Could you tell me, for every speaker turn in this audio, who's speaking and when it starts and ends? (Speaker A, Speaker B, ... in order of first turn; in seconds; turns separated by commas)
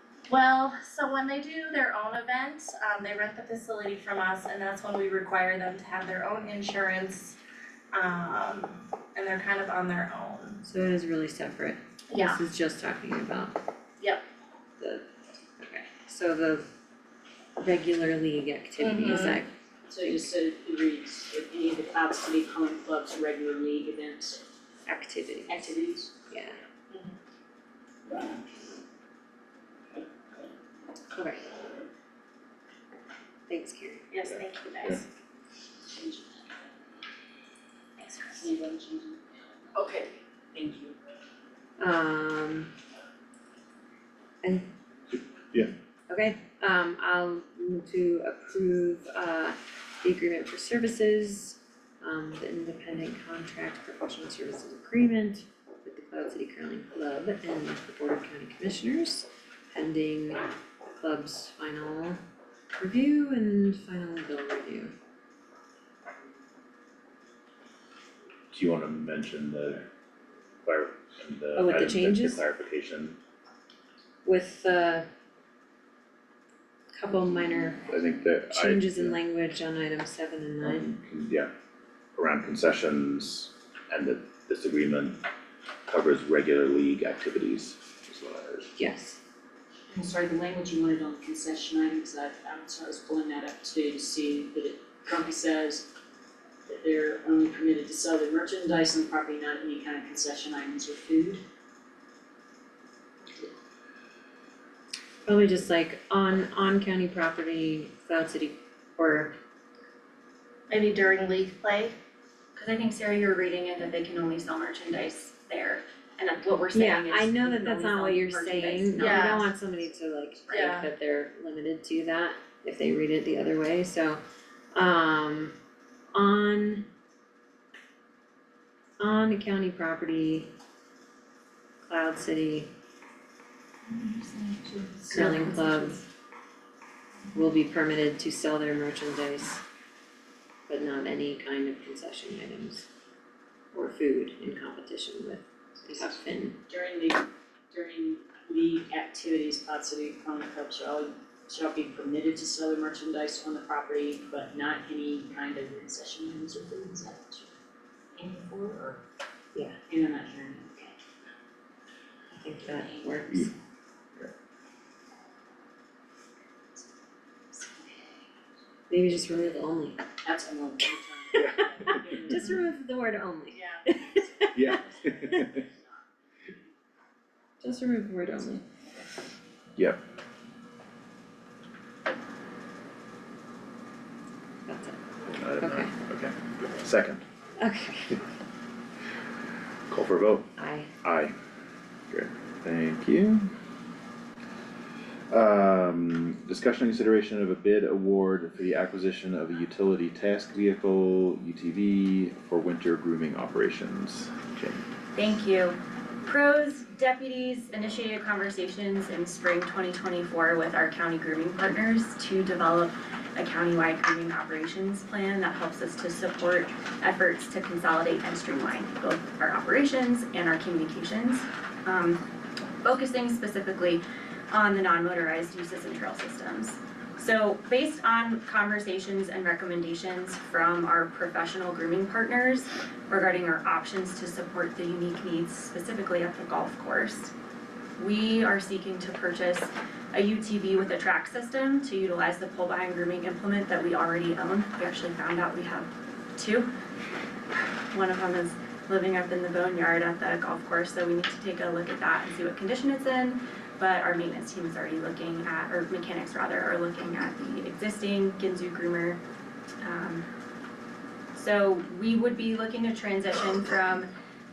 Speaker A: 0.3-7.4, Speaker A: 7.9-10.6, Speaker B: 10.6-13.6, Speaker A: 12.1-12.4, Speaker B: 14.8-16.7, Speaker B: 17.6-19.5, Speaker A: 18.8-19.4, Speaker C: 19.9-24.4, Speaker B: 20.0-20.3, Speaker B: 24.9-25.6, Speaker C: 25.5-26.1, Speaker B: 26.3-26.6, Speaker A: 26.9-27.1, Speaker B: 31.1-31.4, Speaker B: 33.5-34.1, Speaker A: 34.1-35.1, Speaker C: 35.9-36.5, Speaker A: 38.0-38.4, Speaker C: 38.3-39.8, Speaker A: 39.8-40.1, Speaker C: 40.5-40.9, Speaker B: 41.8-42.7, Speaker B: 44.4-44.7, Speaker D: 45.1-45.7, Speaker B: 46.1-60.5, Speaker B: 61.0-62.2, Speaker B: 62.8-64.9, Speaker D: 68.5-69.9, Speaker D: 70.6-73.2, Speaker B: 71.5-72.4, Speaker B: 74.2-75.1, Speaker B: 76.9-77.9, Speaker D: 77.9-79.2, Speaker B: 78.5-80.9, Speaker D: 80.6-81.5, Speaker D: 82.2-85.2, Speaker D: 85.9-88.7, Speaker B: 88.8-89.2, Speaker C: 89.9-95.9, Speaker C: 96.7-101.4, Speaker B: 105.3-109.4, Speaker A: 110.7-112.0, Speaker E: 112.5-119.6, Speaker B: 116.7-124.2, Speaker A: 119.0-119.4, Speaker A: 120.5-120.9, Speaker B: 124.7-125.5, Speaker B: 126.1-126.9, Speaker B: 129.0-130.5, Speaker B: 131.8-132.7, Speaker E: 134.0-136.0, Speaker B: 135.1-136.0, Speaker B: 137.3-139.6, Speaker B: 140.7-142.9, Speaker B: 143.7-146.6, Speaker C: 146.0-157.5, Speaker C: 158.2-159.0, Speaker C: 159.9-161.0, Speaker B: 162.3-163.5, Speaker C: 162.6-163.4, Speaker C: 167.5-168.3, Speaker B: 168.9-170.1, Speaker C: 170.2-172.6, Speaker B: 171.4-174.7, Speaker D: 171.4-171.6, Speaker A: 173.6-173.9, Speaker D: 174.6-175.7, Speaker A: 174.6-175.2, Speaker B: 177.6-178.6, Speaker B: 184.7-185.0, Speaker D: 185.3-187.2, Speaker B: 185.6-185.9, Speaker B: 187.6-188.2, Speaker D: 189.9-190.5, Speaker B: 190.6-190.9, Speaker D: 191.0-191.3, Speaker D: 192.1-193.5, Speaker D: 195.3-204.8, Speaker E: 205.2-222.2, Speaker E: 222.8-224.0, Speaker E: 224.5-237.3, Speaker E: 238.0-246.7, Speaker E: 247.9-259.2, Speaker E: 259.8-260.2, Speaker E: 261.4-264.1